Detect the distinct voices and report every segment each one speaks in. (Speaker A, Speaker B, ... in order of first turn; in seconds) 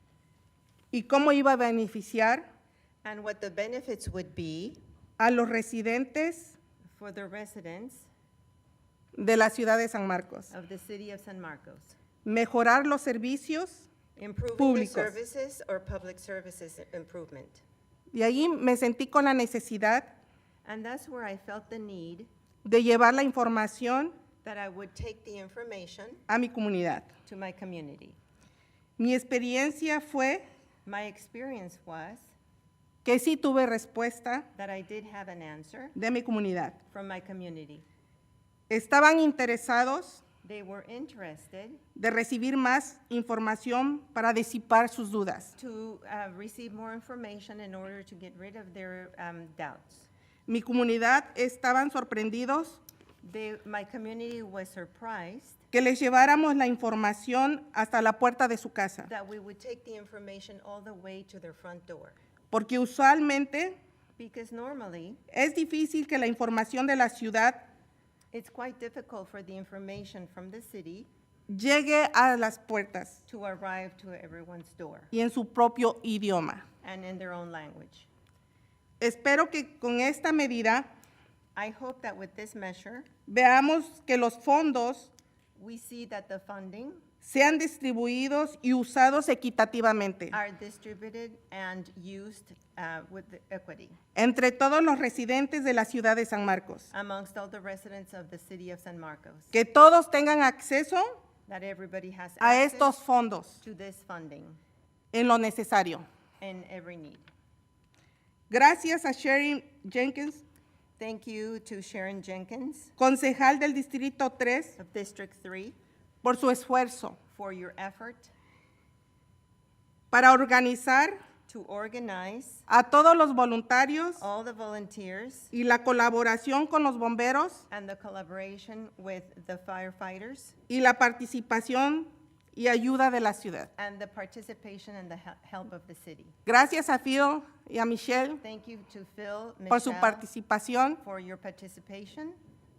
Speaker A: 0.9-2.5, 5.2-6.6, 9.2-10.5, 12.2-13.9, 14.6-15.1, 18.1-20.2, 22.6-24.1, 26.3-27.1, 29.0-30.4, 33.0-34.5, 35.9-36.8, 38.7-40.2, 42.0-45.5, 50.5-52.8, 55.7-59.1, 62.5-63.8, 65.3-67.7, 71.5-73.2, 75.1-76.6, 79.0-80.9, 83.3-85.1, 87.2-90.4, 94.2-96.9, 99.5-101.1, 102.4-103.6, 105.1-106.0, 108.5-110.4, 113.0-114.8, 116.2-117.2, 120.1-121.2, 122.7-124.2, 125.5-127.6, 130.7-133.7, 136.4-138.4, 139.7-141.0
Speaker B: 3.0-4.8, 6.9-8.1, 10.5-11.9, 14.2-17.6, 20.6-22.3, 24.4-26.2, 27.2-28.2, 30.8-32.3, 34.5-35.9, 36.9-37.8, 40.4-41.8, 45.6-50.1, 53.2-55.6, 59.1-62.2, 64.2-65.2, 68.3-71.1, 73.3-75.1, 76.8-78.1, 81.6-83.1, 85.6-87.0, 90.3-94.0, 96.9-99.5, 101.5-103.0, 103.6-104.6, 106.4-107.3, 111.0-112.9, 114.8-115.8, 117.3-118.3, 121.5-122.6, 124.2-125.5, 127.7-130.6, 133.8-136.3, 138.4-140.3, 141.0-142.4